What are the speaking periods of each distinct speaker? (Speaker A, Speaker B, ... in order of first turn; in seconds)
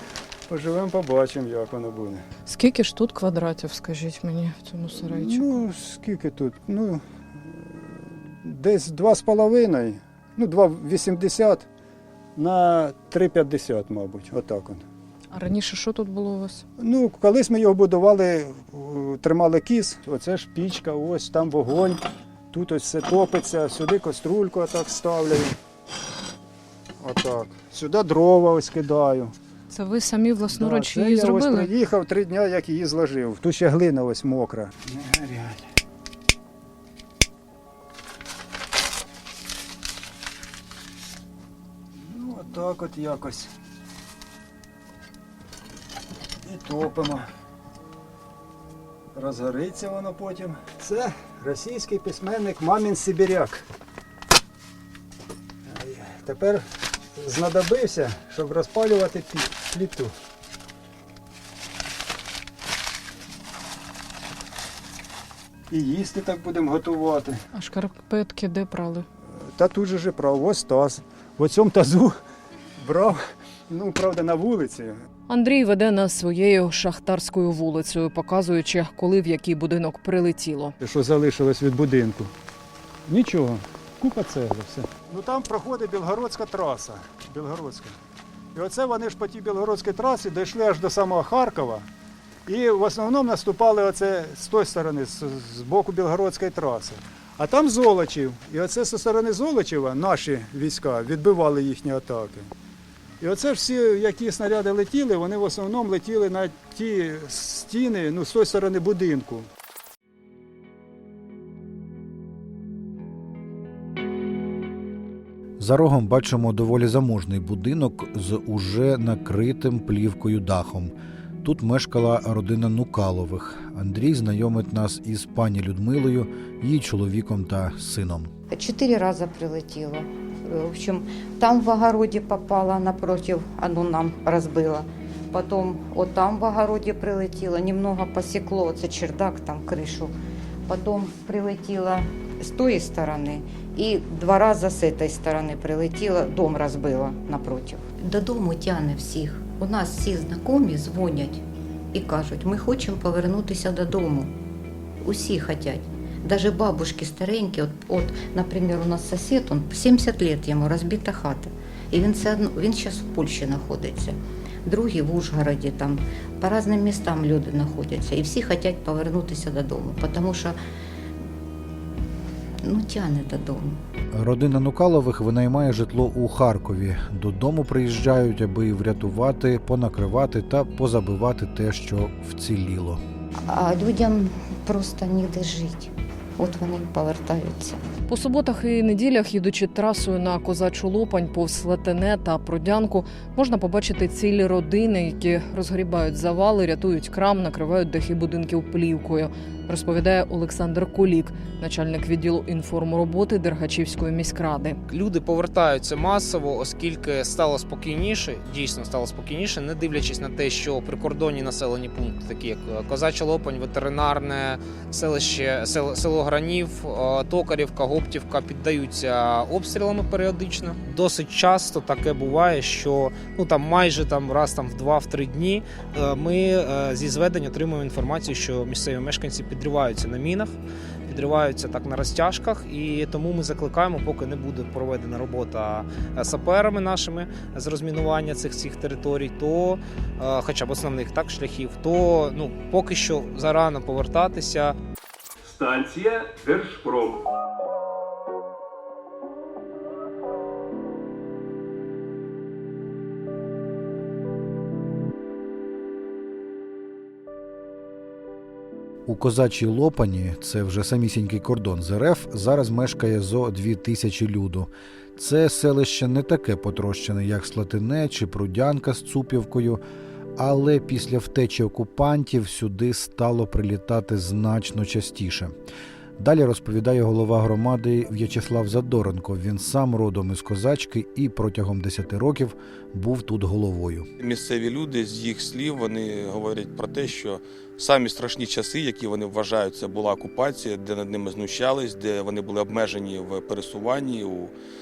Speaker A: 0.5-2.2, 4.9-7.0, 8.4-11.7, 12.4-14.8, 16.8-22.0, 22.5-25.5, 27.0-29.3, 30.5-35.6, 42.0-43.5, 46.4-47.3, 49.1-53.7, 55.7-56.6, 57.2-60.1, 65.7-67.4, 69.6-72.2, 72.8-75.0, 80.8-82.3, 83.1-88.0, 88.5-91.9, 92.5-102.5, 103.2-109.5
Speaker B: 2.5-5.4, 15.3-16.6, 29.7-31.7, 67.5-69.1, 75.3-80.8, 188.1-204.8, 245.5-247.2
Speaker C: 115.6-128.3, 174.1-183.0, 259.1-269.8, 270.4-275.5, 276.2-284.1
Speaker D: 128.5-140.1, 140.7-151.4, 151.9-154.3, 155.0-170.6, 172.7-173.8, 183.5-187.8
Speaker E: 204.9-230.5, 231.1-244.8
Speaker F: 284.2-294.5